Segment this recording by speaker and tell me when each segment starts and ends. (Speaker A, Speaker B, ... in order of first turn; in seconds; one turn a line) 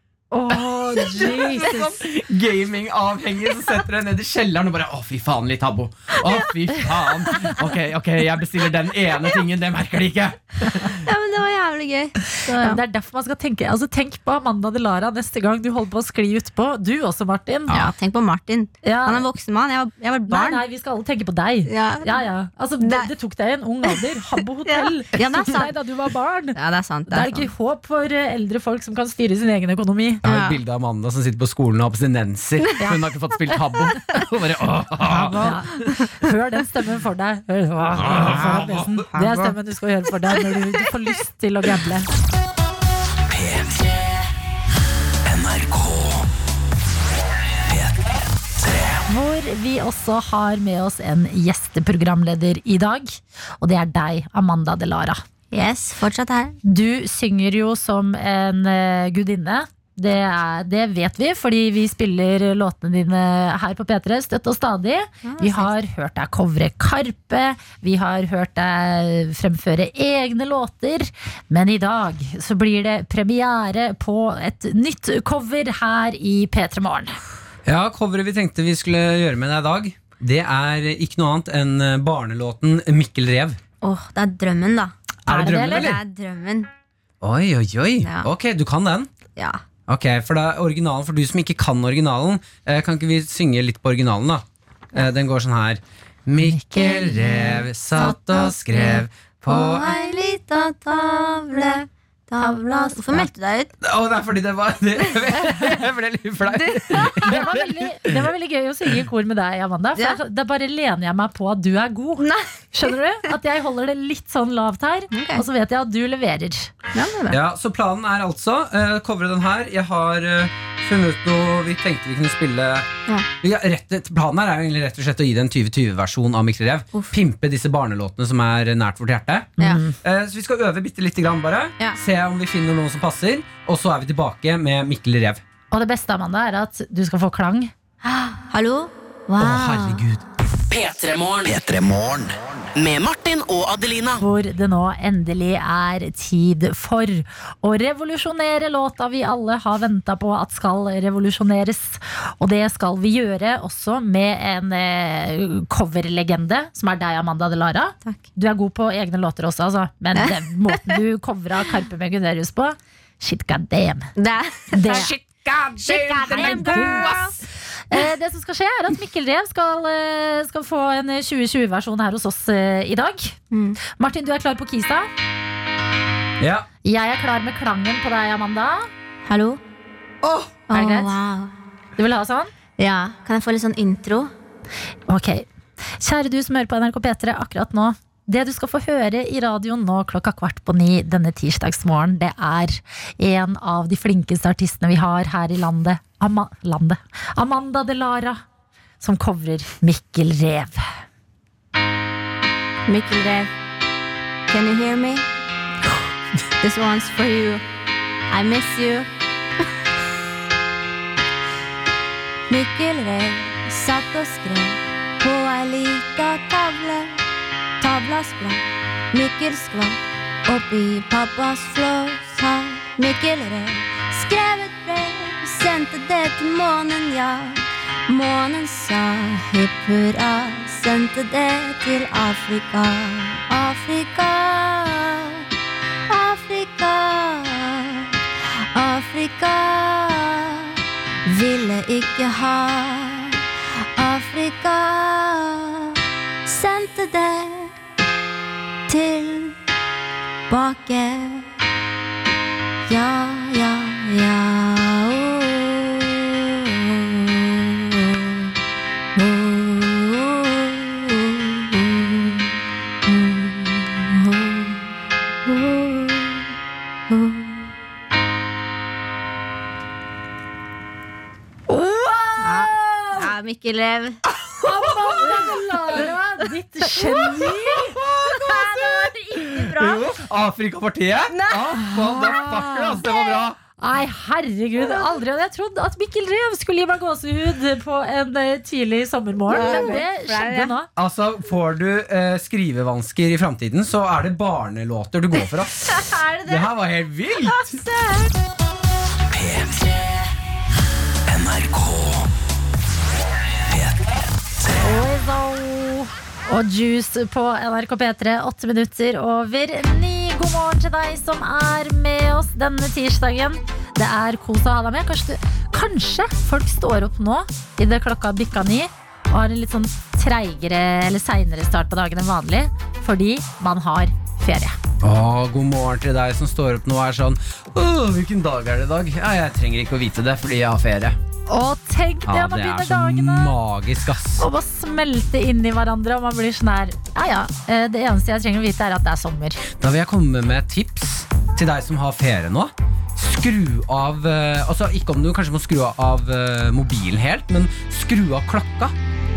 Speaker A: 0.3-2.0
Speaker B: 0.5-11.1
Speaker C: 10.9-12.8
Speaker A: 12.5-17.9
Speaker C: 17.7-20.6
Speaker A: 18.8-19.2
Speaker A: 20.3-26.6
Speaker C: 21.7-22.3
Speaker C: 22.8-23.1
Speaker C: 24.6-25.7
Speaker C: 26.5-27.5
Speaker A: 27.1-30.2
Speaker B: 30.2-35.5
Speaker C: 30.2-30.6
Speaker A: 35.0-42.1
Speaker C: 35.4-36.0
Speaker B: 38.0-39.1
Speaker C: 39.1-39.5
Speaker D: 43.3-43.9
Speaker D: 45.2-46.3
Speaker D: 47.6-49.0
Speaker A: 49.1-55.2
Speaker C: 55.5-56.6
Speaker A: 56.6-77.1
Speaker C: 65.2-65.7
Speaker B: 77.7-83.6
Speaker C: 83.8-84.9
Speaker A: 85.3-85.9
Speaker B: 85.3-86.0
Speaker C: 85.5-86.7
Speaker B: 87.2-89.1
Speaker C: 88.0-88.3
Speaker C: 89.3-89.6
Speaker B: 89.9-99.9
Speaker A: 96.5-97.4
Speaker C: 97.2-103.7
Speaker A: 102.4-103.3
Speaker B: 103.8-108.2
Speaker C: 106.5-107.4
Speaker A: 107.2-116.7
Speaker C: 112.2-112.9
Speaker C: 115.1-115.4
Speaker C: 116.9-117.4
Speaker B: 117.3-122.9
Speaker B: 123.4-135.4
Speaker A: 129.6-130.0
Speaker A: 135.7-137.7
Speaker C: 138.1-140.0
Speaker B: 139.4-140.2
Speaker E: 140.7-141.6
Speaker D: 141.4-142.7
Speaker E: 142.8-144.2
Speaker A: 144.2-164.1
Speaker C: 160.1-161.0
Speaker C: 164.2-165.1
Speaker A: 164.7-165.1
Speaker B: 165.3-167.3
Speaker C: 165.8-167.4
Speaker A: 166.3-167.2
Speaker A: 167.9-175.1
Speaker C: 173.5-173.8
Speaker B: 176.4-176.7
Speaker A: 176.8-178.9
Speaker C: 179.2-179.6
Speaker B: 180.2-180.5
Speaker C: 180.7-181.5
Speaker A: 180.7-181.2
Speaker A: 182.0-182.5
Speaker C: 182.8-184.3
Speaker A: 185.1-198.4
Speaker A: 199.0-200.9
Speaker C: 202.9-203.5
Speaker C: 204.5-205.2
Speaker C: 206.6-207.6
Speaker C: 208.3-209.1
Speaker C: 212.5-217.2
Speaker C: 217.8-235.4
Speaker C: 236.1-238.1
Speaker C: 238.7-243.4
Speaker C: 243.9-247.7
Speaker C: 248.9-249.6
Speaker C: 250.5-251.5
Speaker C: 252.9-258.5
Speaker C: 259.1-262.5
Speaker C: 263.1-264.8
Speaker C: 265.4-266.5
Speaker C: 267.1-267.6
Speaker A: 271.7-273.3
Speaker C: 272.4-274.2
Speaker A: 274.6-280.0
Speaker B: 277.7-283.6
Speaker C: 281.3-282.2
Speaker A: 281.8-283.0
Speaker A: 283.8-290.9
Speaker C: 289.5-290.7
Speaker B: 290.9-295.9
Speaker C: 295.8-296.7
Speaker B: 296.4-297.8
Speaker C: 297.4-298.3
Speaker D: 299.3-300.1
Speaker D: 301.3-302.3
Speaker D: 303.6-304.1
Speaker A: 304.8-324.7
Speaker B: 325.0-331.2
Speaker A: 331.5-333.5
Speaker B: 332.2-334.4
Speaker A: 334.4-339.6
Speaker B: 339.8-348.9